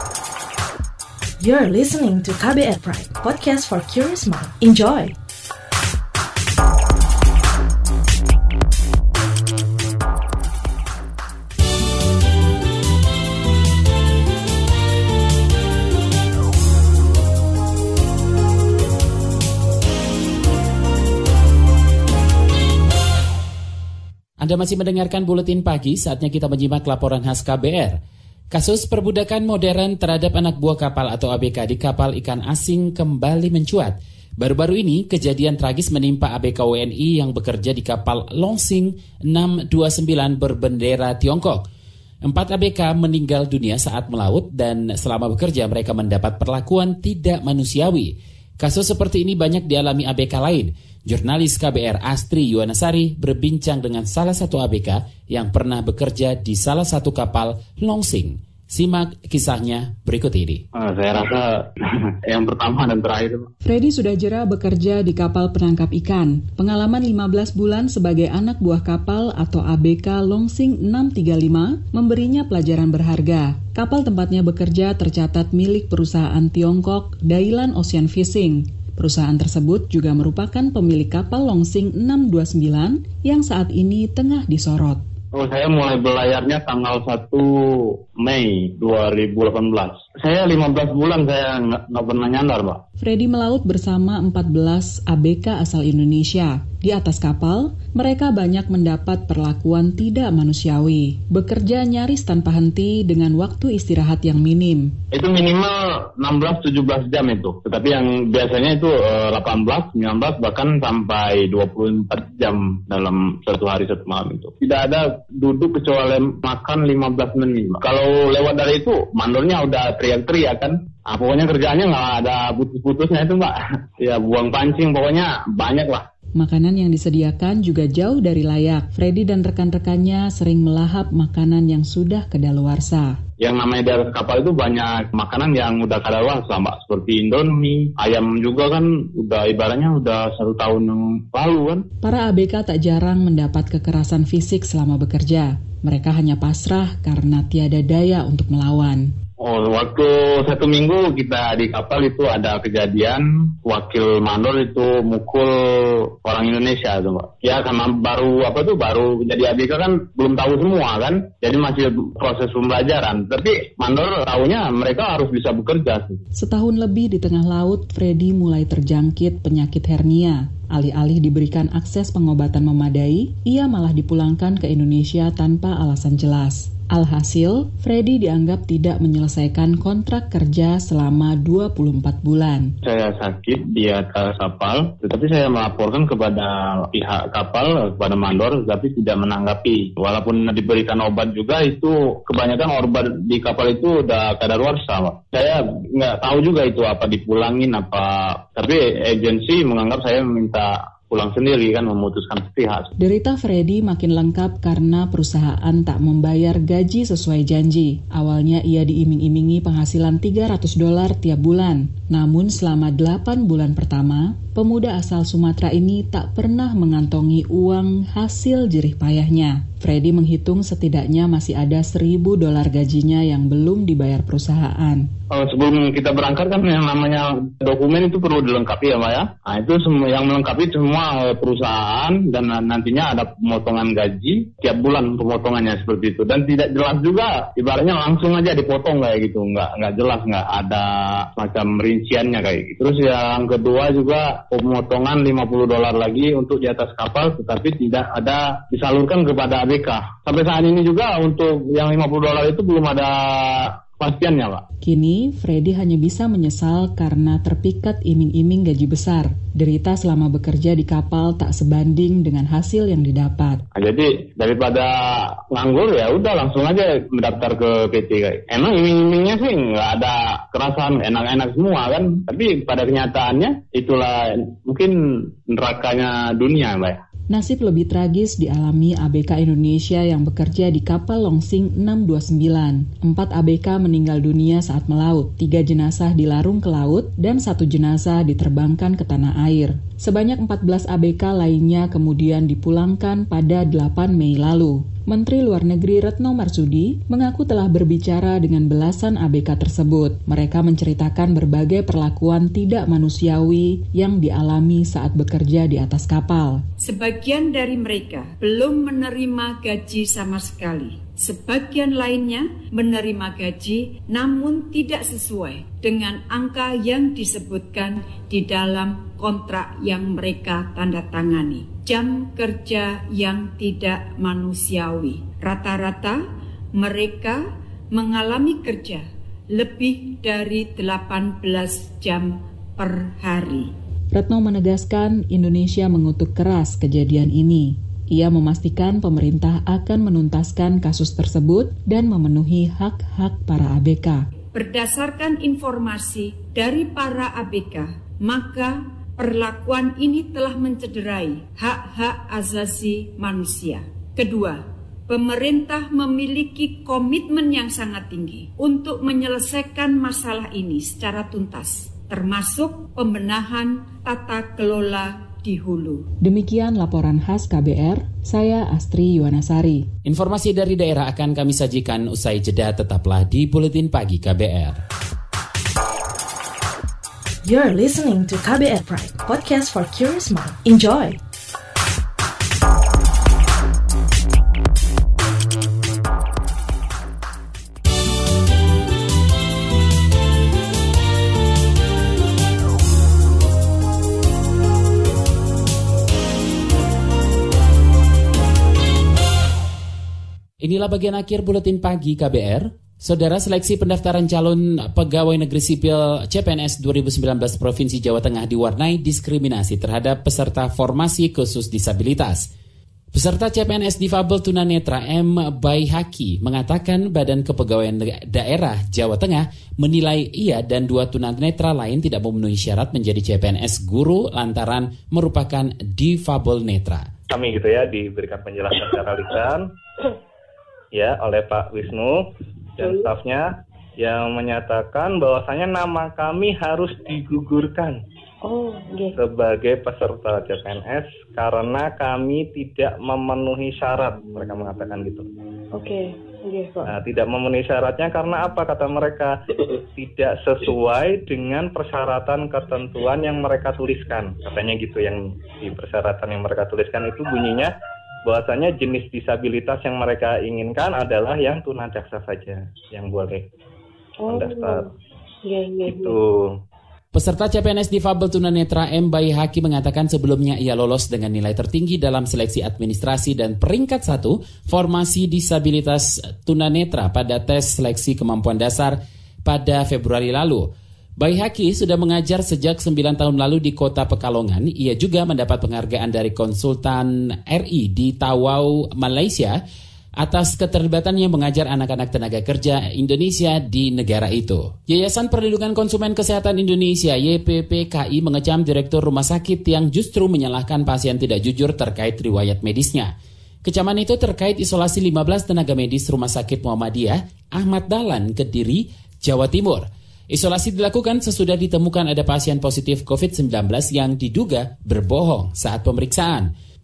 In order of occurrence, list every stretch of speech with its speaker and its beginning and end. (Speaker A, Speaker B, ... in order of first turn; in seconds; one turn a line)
Speaker A: 1.4-5.1
Speaker B: 24.4-28.0
Speaker B: 28.5-41.6
Speaker B: 42.2-60.6
Speaker C: 60.7-63.5
Speaker D: 63.6-85.0
Speaker C: 85.3-92.8
Speaker D: 93.0-104.9
Speaker C: 105.1-126.0
Speaker D: 126.4-133.2
Speaker C: 133.4-141.8
Speaker D: 142.0-149.1
Speaker C: 149.4-166.2
Speaker D: 166.3-182.7
Speaker C: 182.8-202.9
Speaker D: 203.0-225.1
Speaker C: 225.3-254.6
Speaker D: 254.8-263.6
Speaker C: 263.7-277.0
Speaker D: 277.3-306.6
Speaker E: 306.8-326.2
Speaker E: 326.7-333.7
Speaker D: 334.1-344.2
Speaker E: 344.5-366.0
Speaker D: 366.2-369.9
Speaker B: 370.1-374.8
Speaker A: 377.4-381.2
Speaker B: 400.6-412.4
Speaker B: 413.1-427.1
Speaker F: 427.3-429.6
Speaker F: 430.9-432.2
Speaker F: 432.8-433.5
Speaker G: 432.8-433.1
Speaker F: 434.0-438.0
Speaker G: 438.4-439.1
Speaker F: 439.2-445.3
Speaker G: 445.7-446.9
Speaker F: 446.9-449.3
Speaker F: 449.9-457.7
Speaker F: 458.2-463.4
Speaker G: 464.2-464.9
Speaker F: 464.3-464.8
Speaker G: 465.4-466.2
Speaker F: 465.9-466.5
Speaker B: 467.1-480.6
Speaker B: 481.2-489.6
Speaker B: 490.2-503.1
Speaker B: 503.6-516.5